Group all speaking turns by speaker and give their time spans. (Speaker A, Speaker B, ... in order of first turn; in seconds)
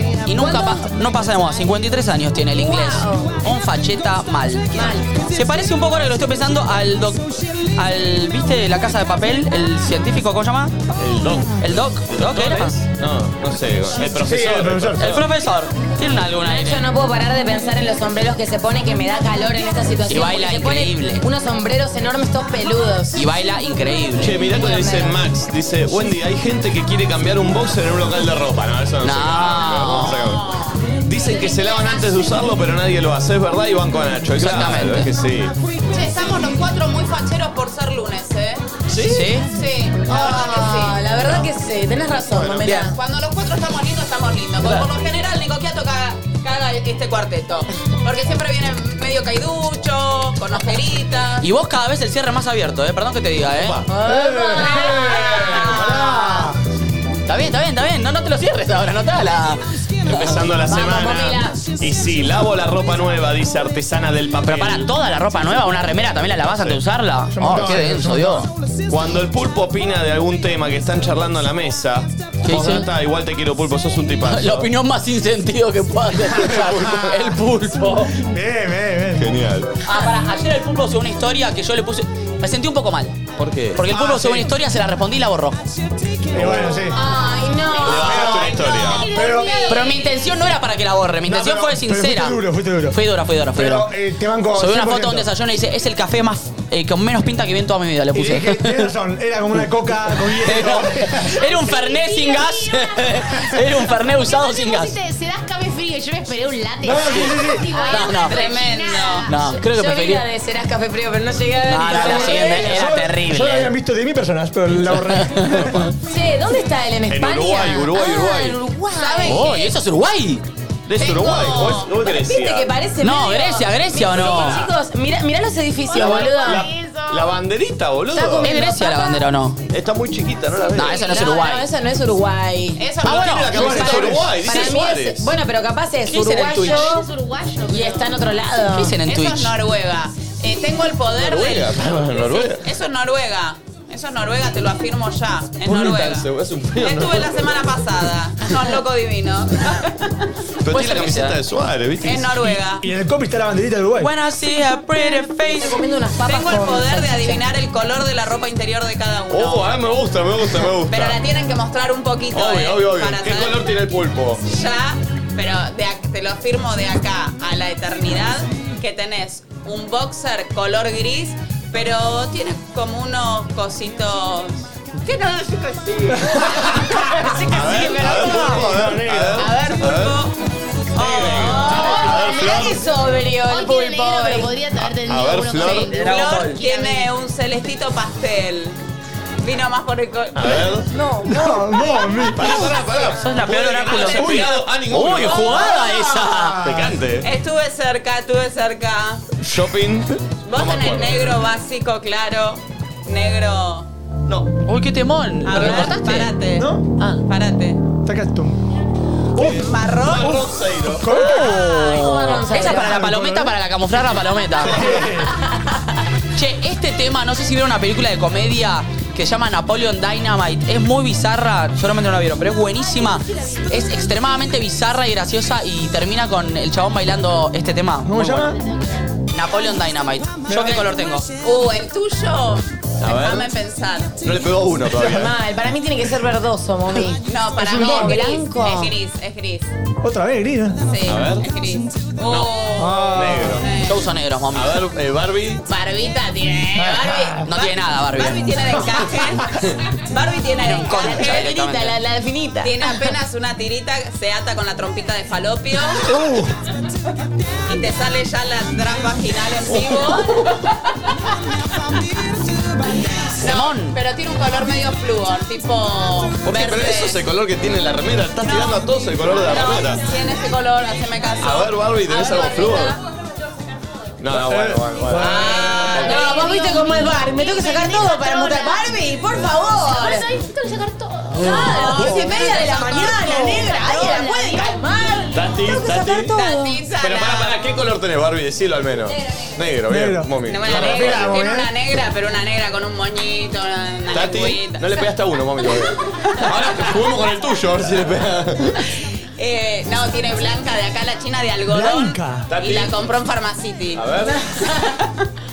Speaker A: 0.2-10.7, 11.6-12.8, 15.0-16.9, 20.1-21.2, 23.1-24.4, 29.0-30.2, 34.4-35.1, 39.0-39.5, 51.4-53.8, 57.3-60.5, 64.5-68.5, 72.4-72.9, 74.2-78.2, 79.8-83.2, 83.7-85.6, 89.7-93.9, 94.5-98.9, 100.2-104.9, 107.1-107.4, 107.9-108.4, 109.3-110.2, 111.7-113.7, 115.0-115.9, 119.2-120.4, 123.0-124.6, 128.4-129.6, 130.7-131.7, 133.0-134.8, 136.1-136.9, 138.7-139.5, 150.7-151.4, 154.0-155.8, 185.9-186.6, 192.5-196.6, 204.6-206.3, 211.1-214.8, 216.3-228.5, 229.3-231.3, 243.8-244.8, 247.4-248.5, 250.6-251.9, 263.4-264.0
Speaker B: 0.3-0.9, 2.5-3.4, 4.7-5.1, 16.4-23.3, 24.4-25.2, 40.0-43.0, 53.9-55.2, 60.7-61.6, 86.9-89.5, 107.8-108.2, 109.5-112.9, 116.0-119.5, 122.0-126.7, 128.1-129.2, 130.8-132.9, 134.2-137.1, 137.7-139.0, 155.4-157.4, 181.4-184.5, 190.9-192.4, 211.8-213.0, 215.3-215.6, 234.9-238.9, 250.9-253.1, 275.9-280.3, 281.3-286.8, 289.1-289.6
Speaker C: 10.9-15.2, 24.2-30.4, 31.0-35.5, 38.9-39.3, 41.2-41.5, 42.3-42.8, 53.5-53.9, 60.0-64.9, 66.3-66.8, 68.9-74.7, 76.4-77.3, 79.2-79.7, 83.4-83.9, 86.3-86.9, 87.8-89.1, 117.1-118.6, 120.9-122.7, 125.9-128.6, 129.7-131.1, 133.0-135.3, 141.1-142.6, 145.6-147.5, 150.6-152.6, 159.3-161.2, 162.3-164.4, 177.4-180.3, 180.9-182.8, 184.8-186.1, 190.3-190.9, 192.2-197.3, 199.4-201.4, 209.3-211.2, 214.6-215.2, 233.0-233.5, 234.2-235.3, 241.0-241.5, 242.2-242.5, 243.1-243.7, 244.5-245.6, 266.4-270.0, 271.4-273.0, 274.2-276.3, 285.3-286.3, 287.0-291.4, 294.1-298.8, 302.5-302.9, 303.9-304.4
Speaker D: 14.1-15.1, 54.0-56.6, 67.3-68.5, 78.2-79.3, 83.9-84.5, 86.3-87.0, 87.9-88.5, 89.0-89.6, 91.2-93.0, 93.5-95.3, 98.1-101.4, 106.8-107.8, 111.9-115.9, 133.5-134.2, 152.7-154.1, 176.2-179.5, 191.2-192.6, 194.1-194.5, 196.2-196.9, 206.6-206.9, 208.0-208.6, 210.2-213.5, 214.6-215.4, 228.0-228.6, 230.4-230.9, 237.6-238.2, 240.0-240.8, 242.8-243.6, 246.7-247.5, 256.0-256.6, 274.3-276.0, 281.4-282.4, 289.9-291.7, 301.7-302.5
Speaker E: 30.0-32.0, 35.9-38.6, 39.5-41.0, 42.6-51.5, 54.6-56.4, 108.2-109.3, 118.9-119.7, 121.0-121.9, 123.9-124.7, 132.8-134.0, 139.0-150.3, 152.0-152.9, 156.2-159.7, 160.9-163.7, 164.4-178.6, 179.3-180.3, 180.9-182.2, 185.9-188.8, 189.4-190.8, 193.8-194.2, 197.2-199.3, 200.4-203.9, 205.4-207.8, 209.4-210.4, 231.4-234.2, 237.2-239.7, 240.8-244.0, 245.7-251.7, 252.6-256.1, 257.7-261.1, 263.2-267.2, 268.4-273.0, 275.2-276.5, 281.5-282.8, 286.3-287.6, 290.4-295.1, 299.4-304.0, 304.6-305.1
Speaker F: 88.5-90.1, 101.6-109.5, 125.8-127.4, 136.4-138.2, 181.7-182.6, 183.4-187.1, 223.3-223.7, 228.5-229.2, 276.1-278.9, 279.8-285.3